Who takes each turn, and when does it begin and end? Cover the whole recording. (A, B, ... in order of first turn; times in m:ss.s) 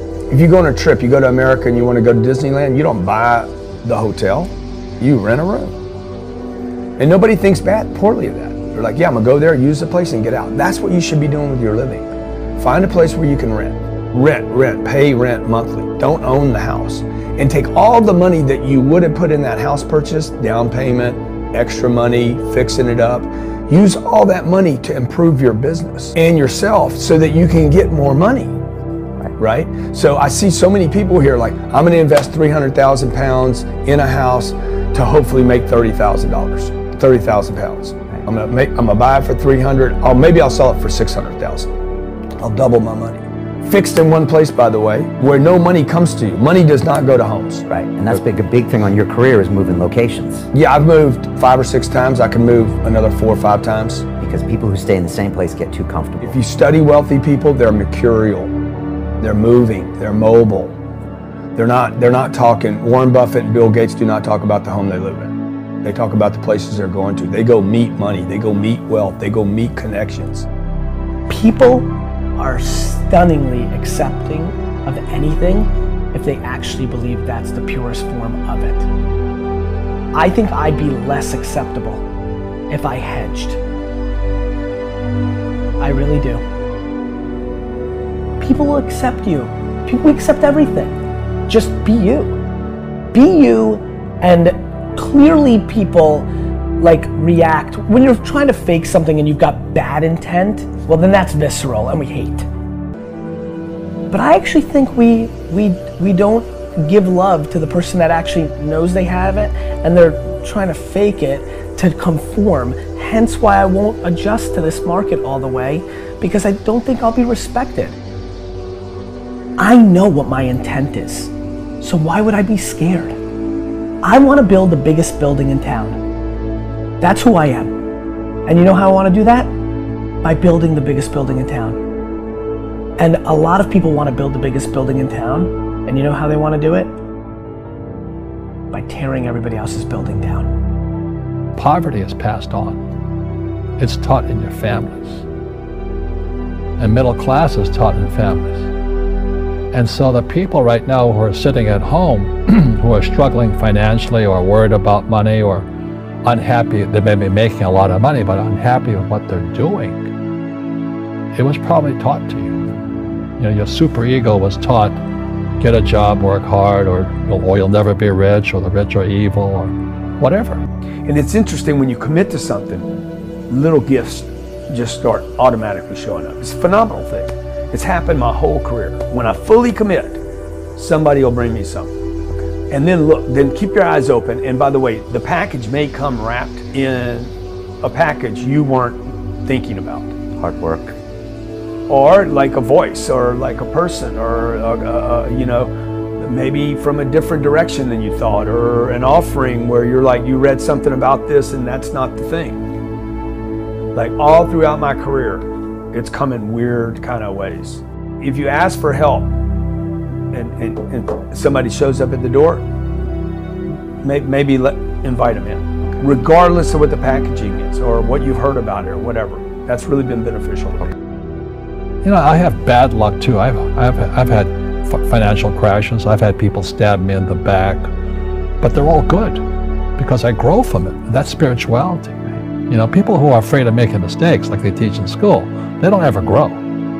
0:00.3-0:05.8 A
0:07.0-0:28.6 A
0:29.4-0:41.7 A
0:42.4-0:47.6 A
0:47.7-0:50.5 B
0:50.5-0:54.1 A
0:54.2-0:56.4 B
0:56.2-0:58.5 A
0:59.2-1:00.8 A
1:01.5-1:10.5 A
1:11.3-1:18.9 C
1:20.1-1:22.0 C
1:22.7-1:23.6 C
1:25.8-1:26.4 C
1:28.4-1:32.4 C
1:33.1-1:42.5 C
1:44.1-1:58.0 C
1:59.6-2:03.2 C
2:04.0-2:06.0 C
2:07.0-2:07.7 C
2:08.4-2:09.5 C
2:10.2-2:11.8 C
2:13.0-2:17.0 C
2:18.7-2:20.5 C
2:21.6-2:22.8 D
2:23.8-2:25.2 D
2:26.8-2:28.7 D
2:29.7-2:35.7 D
2:36.2-2:40.1 D
2:41.3-2:42.5 D
2:43.4-2:45.0 D
2:45.6-2:50.6 D
2:51.0-2:52.9 A
2:53.5-3:00.2 A
3:00.8-3:01.9 A
3:02.7-3:10.2 A
3:10.4-3:10.9 B
3:11.9-3:22.6 A
3:23.9-3:29.3 A
3:30.3-3:32.6 A
3:34.0-3:40.9 A
3:42.0-3:47.9 D
3:48.6-3:49.4 D
3:50.0-3:56.6 D